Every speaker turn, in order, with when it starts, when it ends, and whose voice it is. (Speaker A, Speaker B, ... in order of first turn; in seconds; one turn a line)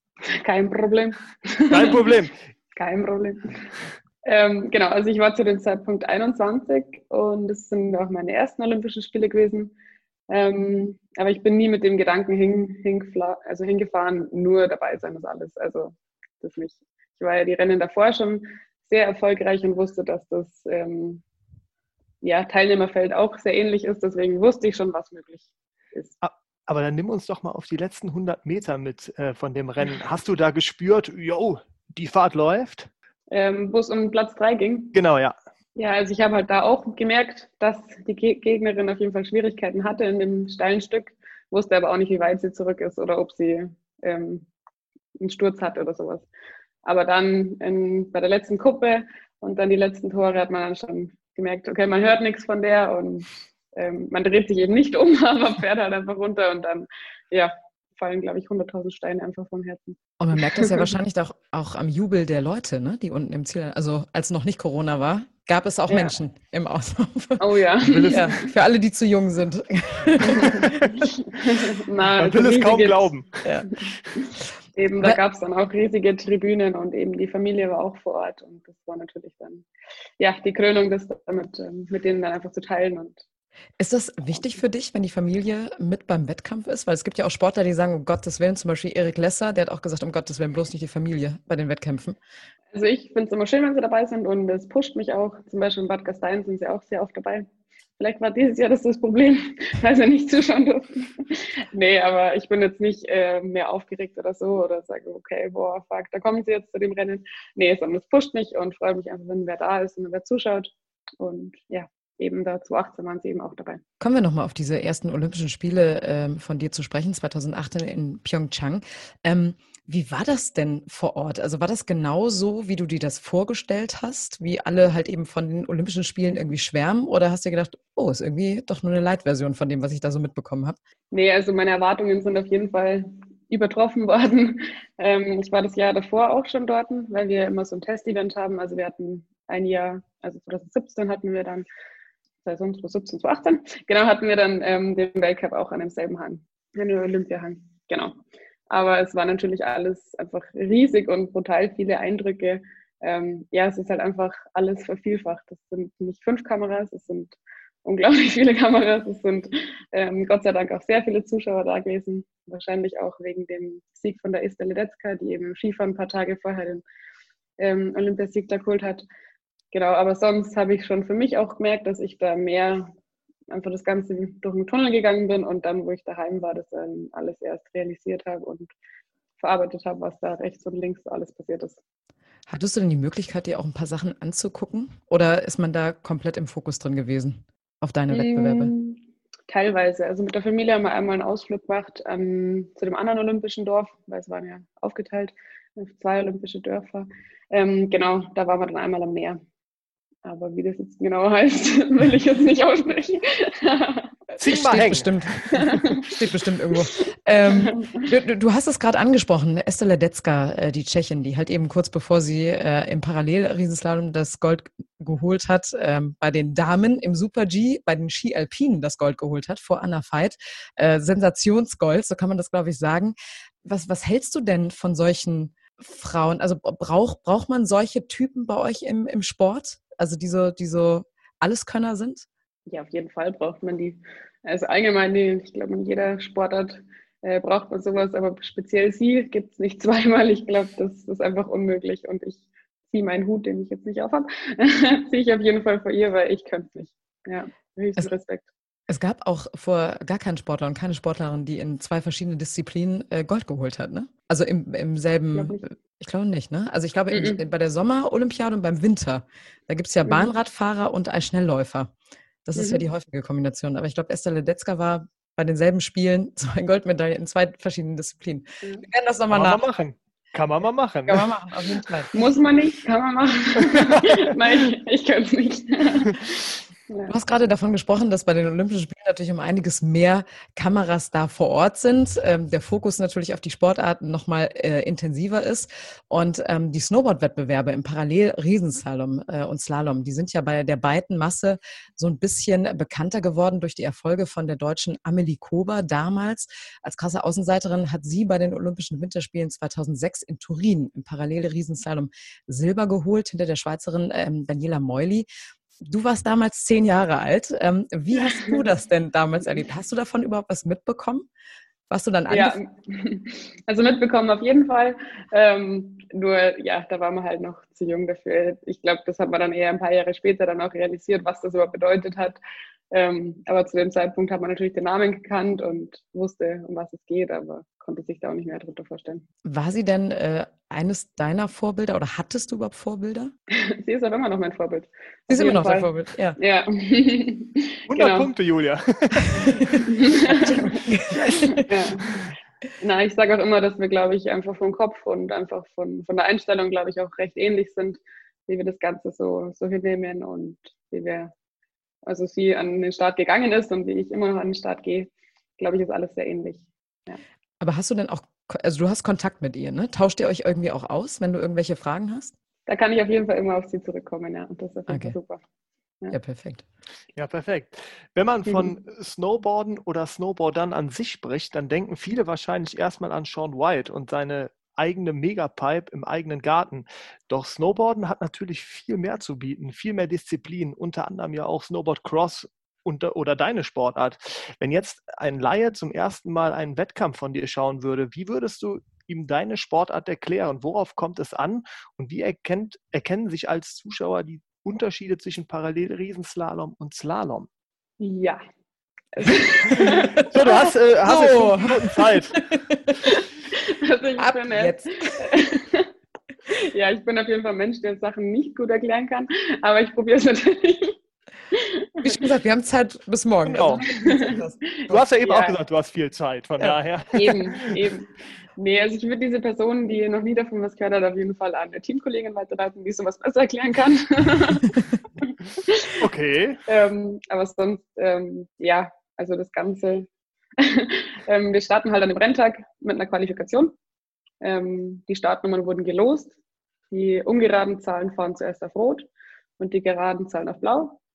Speaker A: 0.2-2.1
Speaker B: 1.7-2.3
Speaker A: 2.8-3.6
Speaker A: 4.2-9.7
Speaker A: 10.3-21.2
Speaker A: 22.2-26.1
Speaker B: 26.2-32.9
Speaker A: 33.3-34.9
Speaker B: 34.9-35.3
Speaker A: 35.8-44.5
Speaker A: 45.2-46.2
Speaker A: 46.8-60.9
Speaker C: 60.2-67.5
Speaker A: 65.9-66.1
Speaker A: 67.4-68.5
Speaker B: 67.8-68.3
Speaker C: 68.1-71.0
Speaker A: 70.3-73.1
Speaker B: 72.1-73.4
Speaker A: 74.8-79.7
Speaker A: 80.2-83.2
Speaker C: 83.8-92.2
Speaker A: 92.7-97.5
Speaker A: 98.0-113.8
Speaker C: 114.0-130.8
Speaker A: 131.1-141.7
Speaker A: 142.4-148.1
Speaker A: 148.7-166.8
Speaker A: 167.6-169.0
Speaker A: 169.7-172.9
Speaker A: 173.5-178.7
Speaker A: 179.4-181.8
Speaker C: 182.5-188.7
Speaker A: 188.1-199.4
Speaker A: 200.2-204.1
Speaker C: 204.3-232.2
Speaker B: 204.4-205.2
Speaker A: 205.5-206.1
Speaker A: 207.0-208.1
Speaker A: 232.7-248.5
Speaker C: 248.9-261.9
Speaker A: 255.3-255.7
Speaker A: 257.1-257.4
Speaker C: 262.4-269.6
Speaker A: 262.5-262.8
Speaker B: 269.3-271.3
Speaker C: 271.1-272.1
Speaker A: 272.1-276.3
Speaker B: 273.7-274.1
Speaker A: 276.9-277.1
Speaker C: 277.1-305.3
Speaker C: 305.8-311.3
Speaker A: 308.2-308.6
Speaker C: 311.9-312.6
Speaker A: 312.3-322.4
Speaker A: 322.9-329.2
Speaker C: 329.4-333.3
Speaker A: 333.5-338.3
Speaker C: 335.3-336.4
Speaker B: 337.9-339.5
Speaker A: 339.9-340.9
Speaker C: 340.3-341.7
Speaker A: 341.4-342.2
Speaker A: 342.8-351.3
Speaker A: 352.0-357.2
Speaker C: 357.6-362.3
Speaker A: 362.7-365.4
Speaker C: 364.9-365.1
Speaker C: 366.1-366.6
Speaker B: 367.1-397.5
Speaker A: 368.5-368.7
Speaker A: 398.0-398.4
Speaker A: 399.1-400.5
Speaker B: 399.8-402.4
Speaker C: 401.0-403.0
Speaker A: 403.0-405.9
Speaker C: 404.2-405.4
Speaker A: 406.5-410.9
Speaker A: 411.5-412.2
Speaker C: 412.0-415.0
Speaker B: 413.4-413.8
Speaker A: 413.8-415.6
Speaker B: 414.9-417.7
Speaker A: 417.1-426.0
Speaker B: 426.0-426.6
Speaker A: 426.7-430.1
Speaker A: 430.6-433.7
Speaker A: 434.4-436.3
Speaker A: 436.9-439.1
Speaker A: 439.6-441.0